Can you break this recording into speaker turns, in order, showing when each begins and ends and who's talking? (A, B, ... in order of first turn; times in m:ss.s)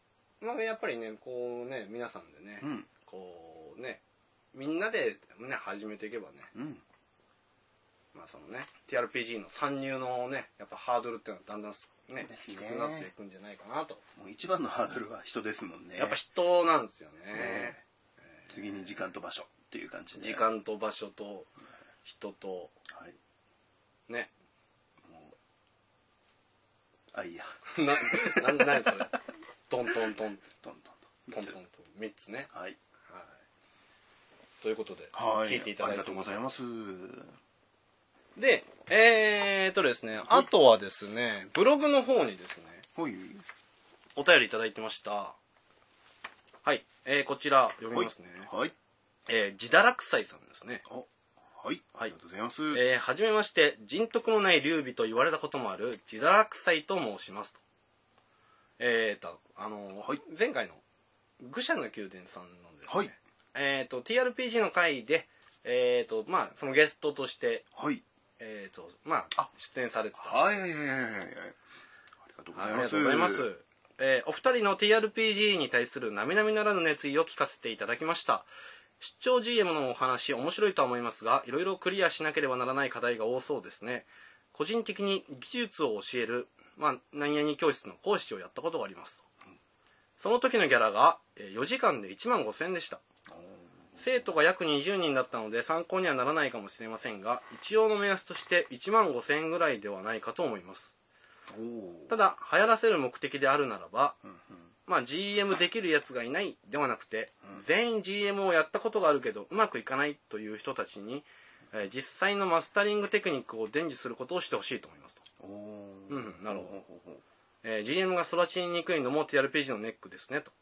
0:00.4-0:04.0 A
0:02.6-0:02.9 B
0:04.5-0:06.5 A
0:06.5-0:06.8 B
0:08.1-0:14.0 A
0:12.2-0:13.1 B
0:14.2-0:16.2 B
0:16.0-0:17.8 A
0:17.3-0:17.8 B
0:18.5-0:20.5 B
0:20.2-0:21.5 A
0:22.0-0:22.8 A
0:22.9-0:23.2 B
0:24.1-0:24.3 A
0:25.0-0:25.4 B
0:27.1-0:29.0 B
0:27.7-0:29.2 A
0:29.7-0:30.5 A
0:29.9-0:31.6 B
0:31.3-0:32.5 A
0:32.5-0:32.8 B
0:33.1-0:33.4 A
0:34.6-0:36.4 A
0:35.1-0:37.4 B
0:38.4-0:42.9 A
0:43.0-0:43.4 B
0:44.2-0:45.4 A
0:46.6-0:48.5 A
0:47.9-0:48.7 B
0:49.3-0:50.8 A
0:50.9-0:52.8 B
0:52.7-0:57.6 A
0:58.8-1:00.8 A
1:01.4-1:07.7 A
1:02.9-1:03.1 B
1:07.8-1:08.0 B
1:08.4-1:10.6 A
1:10.2-1:11.6 B
1:12.2-1:13.5 B
1:12.5-1:18.5 A
1:19.0-1:29.2 A
1:30.2-1:33.0 A
1:33.3-1:34.3 B
1:34.0-1:40.9 A
1:41.5-1:42.2 B
1:42.1-1:44.2 A
1:44.2-1:44.7 B
1:44.9-1:55.2 A
1:55.4-1:57.2 B
1:56.1-1:56.8 A
1:57.6-2:00.5 A